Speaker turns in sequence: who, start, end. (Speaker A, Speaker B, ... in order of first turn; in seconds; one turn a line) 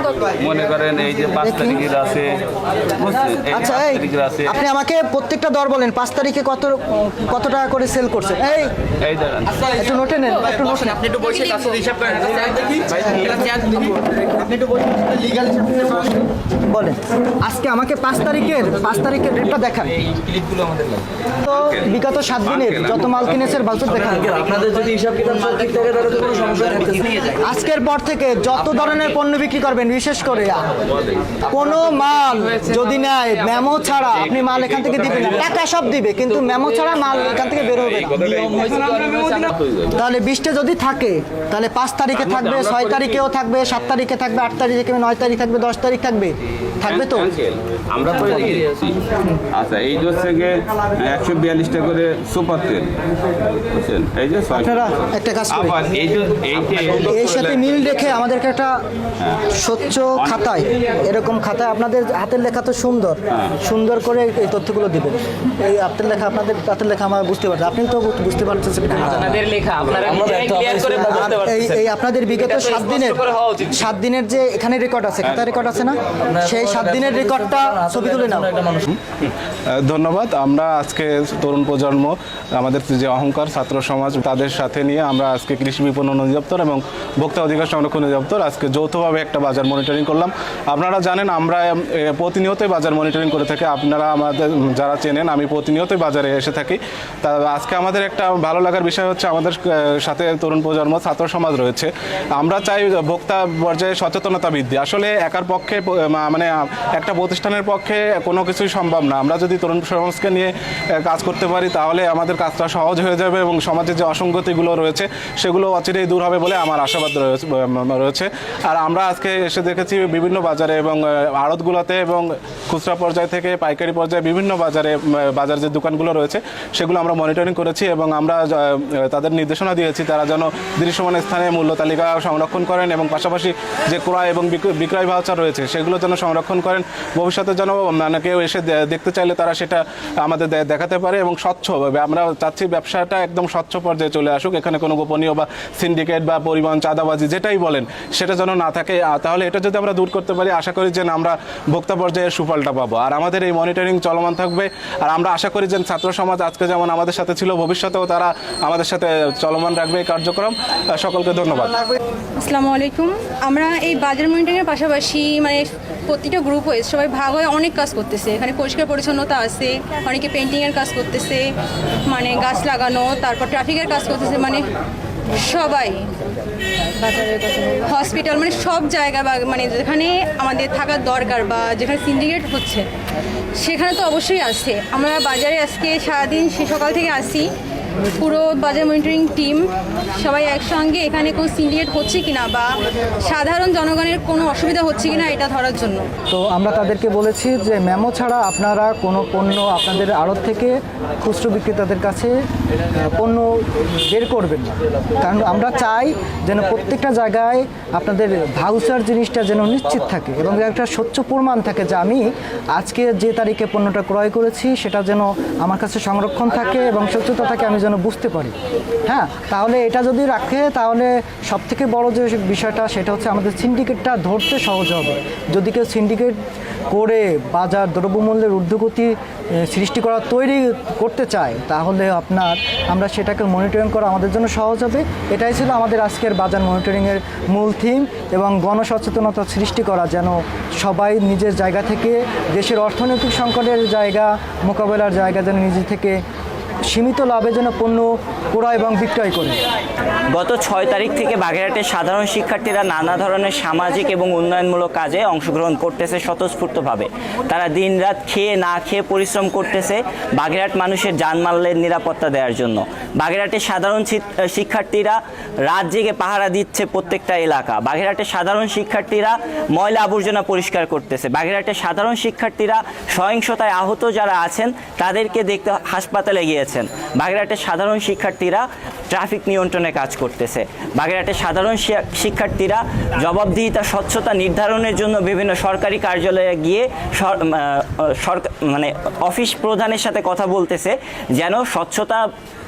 Speaker A: 0.3-2.5
Speaker B: 1.4-1.8
Speaker A: 3.0-4.6
Speaker B: 3.3-8.7
Speaker A: 9.0-9.6
Speaker B: 9.6-20.0
Speaker C: 11.2-11.8
Speaker D: 20.3-20.9
Speaker B: 21.4-24.5
Speaker A: 21.6-21.9
Speaker A: 22.5-23.1
Speaker D: 24.1-27.3
Speaker B: 27.2-30.8
Speaker A: 31.0-31.3
Speaker B: 31.4-38.8
Speaker A: 34.3-35.1
Speaker A: 37.4-40.0
Speaker B: 39.9-47.3
Speaker A: 42.3-43.1
Speaker A: 46.9-55.0
Speaker B: 54.5-55.8
Speaker A: 55.5-58.1
Speaker B: 57.1-58.8
Speaker B: 59.5-78.6
Speaker D: 69.1-71.7
Speaker D: 76.4-78.8
Speaker E: 79.1-161.8
Speaker C: 162.4-171.5
Speaker C: 172.1-174.7
Speaker C: 175.3-176.1
Speaker C: 177.0-182.9
Speaker C: 183.6-187.5
Speaker C: 188.2-196.1
Speaker B: 196.3-202.3
Speaker B: 202.9-218.6
Speaker B: 219.1-226.4
Speaker B: 226.9-246.2
Speaker B: 246.9-249.6
Speaker F: 250.3-292.2